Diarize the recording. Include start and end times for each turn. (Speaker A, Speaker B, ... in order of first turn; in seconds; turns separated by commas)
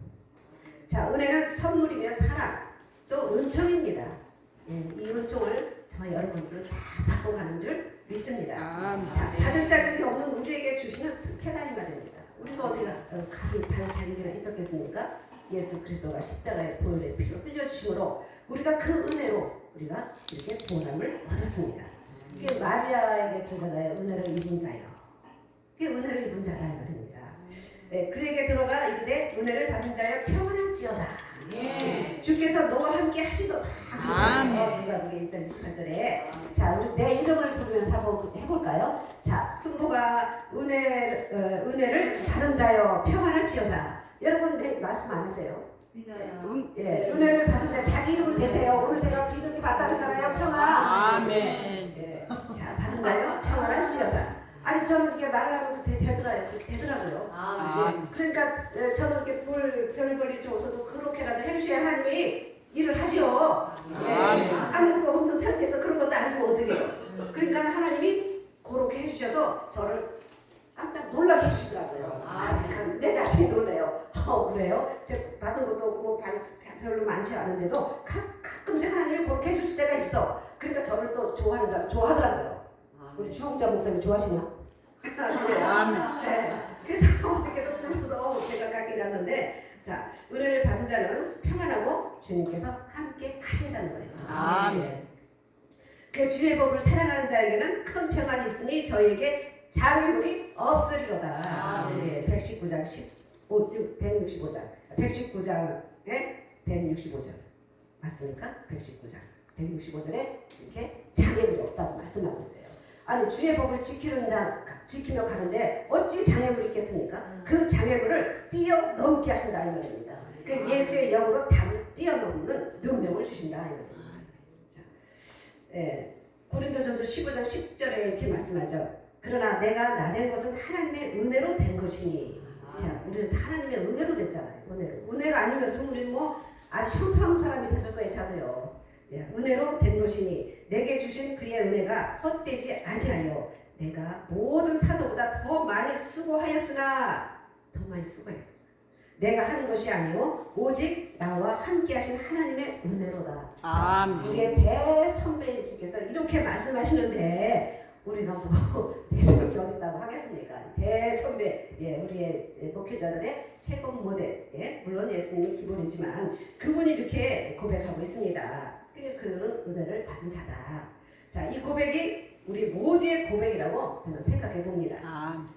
Speaker A: 0.8-25.0, Speaker B: 8.5-9.9, Speaker B: 12.6-13.0, Speaker A: 25.8-70.1, Speaker B: 31.6-32.1, Speaker B: 34.0-34.8, Speaker B: 46.3-48.0, Speaker B: 50.6-52.6, Speaker B: 57.5-58.1, Speaker B: 63.9-64.8, Speaker A: 70.7-82.6, Speaker A: 83.1-84.5, Speaker A: 85.0-95.0, Speaker B: 85.3-86.5, Speaker B: 94.2-95.0, Speaker A: 96.1-107.4, Speaker B: 101.4-102.2, Speaker A: 108.0-124.8, Speaker B: 124.0-124.3, Speaker A: 125.7-148.7, Speaker A: 149.2-175.1, Speaker B: 153.6-154.5, Speaker B: 175.0-175.5